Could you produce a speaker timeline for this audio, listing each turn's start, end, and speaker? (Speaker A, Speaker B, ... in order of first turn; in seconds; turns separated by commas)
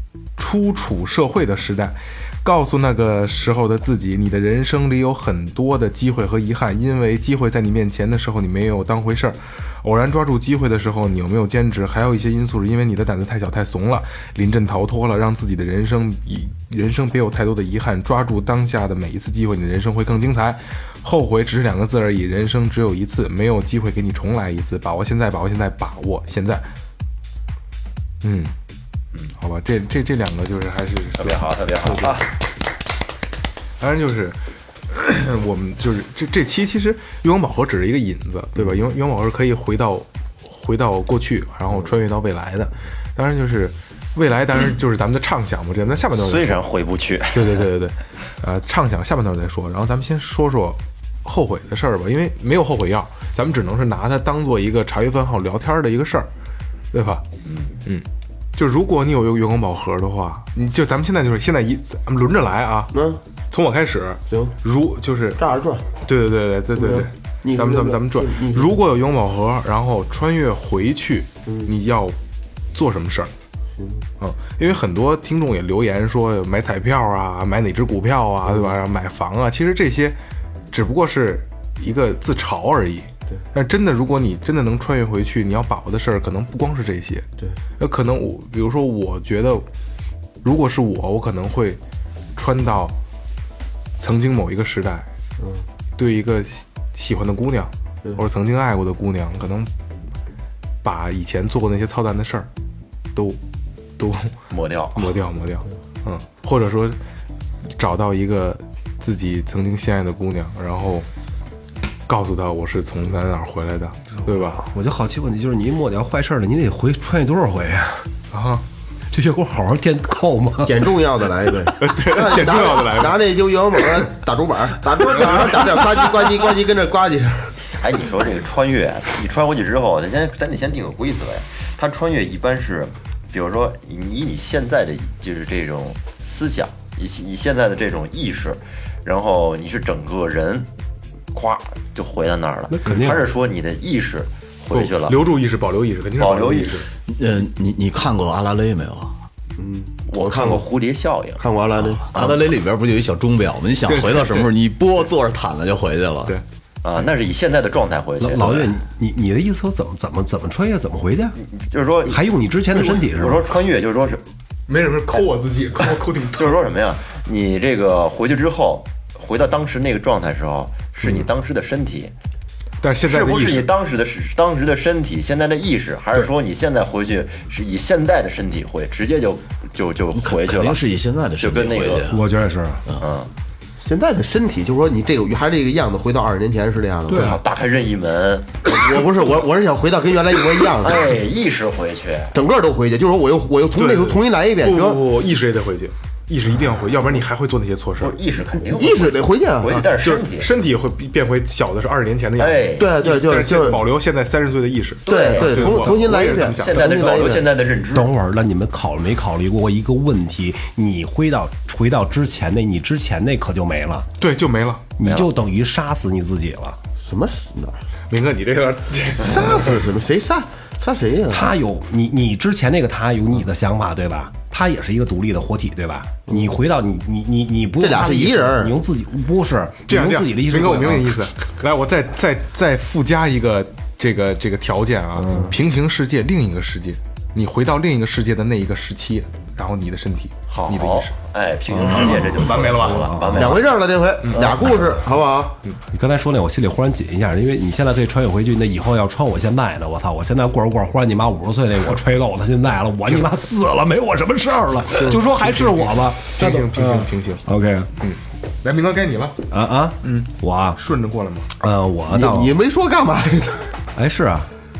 Speaker A: 0.4-26.7, Speaker A: 28.2-28.5, Speaker A: 29.4-32.0, Speaker B: 31.1-32.3, Speaker A: 33.8-46.6, Speaker B: 46.1-47.6, Speaker A: 47.3-56.3, Speaker A: 56.9-57.2, Speaker A: 57.8-62.9, Speaker C: 62.9-63.2, Speaker A: 63.5-65.4, Speaker C: 64.3-64.5, Speaker C: 65.4-65.9, Speaker A: 66.0-72.2, Speaker C: 66.7-68.8, Speaker A: 72.7-73.3, Speaker C: 73.8-74.0, Speaker A: 74.2-80.2, Speaker A: 80.7-87.2, Speaker A: 87.8-89.7, Speaker A: 90.4-91.8, Speaker A: 92.3-93.0, Speaker A: 94.0-95.1, Speaker C: 95.4-95.7, Speaker A: 96.0-99.7, Speaker A: 100.8-102.5, Speaker A: 103.1-103.4, Speaker A: 104.0-104.3, Speaker B: 104.5-105.2, Speaker A: 104.9-107.0, Speaker A: 107.7-111.1, Speaker A: 112.1-114.6, Speaker D: 114.2-118.0, Speaker A: 118.3-118.6, Speaker D: 119.1-120.8, Speaker C: 120.6-127.6, Speaker A: 121.8-123.2, Speaker B: 127.8-140.7, Speaker B: 141.3-145.3, Speaker D: 142.7-143.2, Speaker A: 144.7-146.9, Speaker B: 146.2-146.8, Speaker E: 147.1-149.1, Speaker C: 149.6-150.7, Speaker B: 150.1-151.4, Speaker C: 151.4-152.1, Speaker E: 151.8-156.4, Speaker B: 152.1-152.4, Speaker A: 153.9-154.4, Speaker B: 156.8-158.7, Speaker D: 158.2-161.4, Speaker B: 161.6-164.2, Speaker D: 162.1-163.4, Speaker A: 164.7-166.6, Speaker B: 166.3-172.1, Speaker A: 171.0-171.3, Speaker A: 172.8-173.7, Speaker B: 173.0-180.8, Speaker E: 180.1-182.2, Speaker B: 181.4-182.1, Speaker D: 182.1-182.8, Speaker B: 183.0-183.3, Speaker C: 183.8-187.4, Speaker D: 187.1-187.3, Speaker B: 187.1-188.7, Speaker C: 188.6-191.2, Speaker B: 190.8-192.3, Speaker C: 192.3-195.0, Speaker A: 193.7-198.2, Speaker B: 198.0-200.5, Speaker C: 198.7-199.9, Speaker A: 200.0-207.3, Speaker B: 202.4-202.9, Speaker C: 202.8-203.8, Speaker B: 205.1-208.1, Speaker C: 205.1-207.5, Speaker D: 207.9-214.1, Speaker A: 214.2-214.8, Speaker D: 215.0-216.8, Speaker B: 215.0-215.3, Speaker C: 217.0-217.8, Speaker A: 218.1-219.8, Speaker C: 219.2-221.5, Speaker D: 221.3-231.2, Speaker C: 227.8-228.8, Speaker A: 229.9-241.1, Speaker B: 240.5-243.7, Speaker C: 241.7-242.0, Speaker A: 241.9-243.1, Speaker D: 242.8-243.6, Speaker C: 243.3-245.6, Speaker B: 244.3-244.7, Speaker D: 245.9-257.9, Speaker A: 255.0-257.5, Speaker A: 258.0-259.4, Speaker D: 259.5-260.8, Speaker A: 260.0-261.5, Speaker D: 261.6-262.6, Speaker C: 262.1-263.8, Speaker D: 263.9-264.5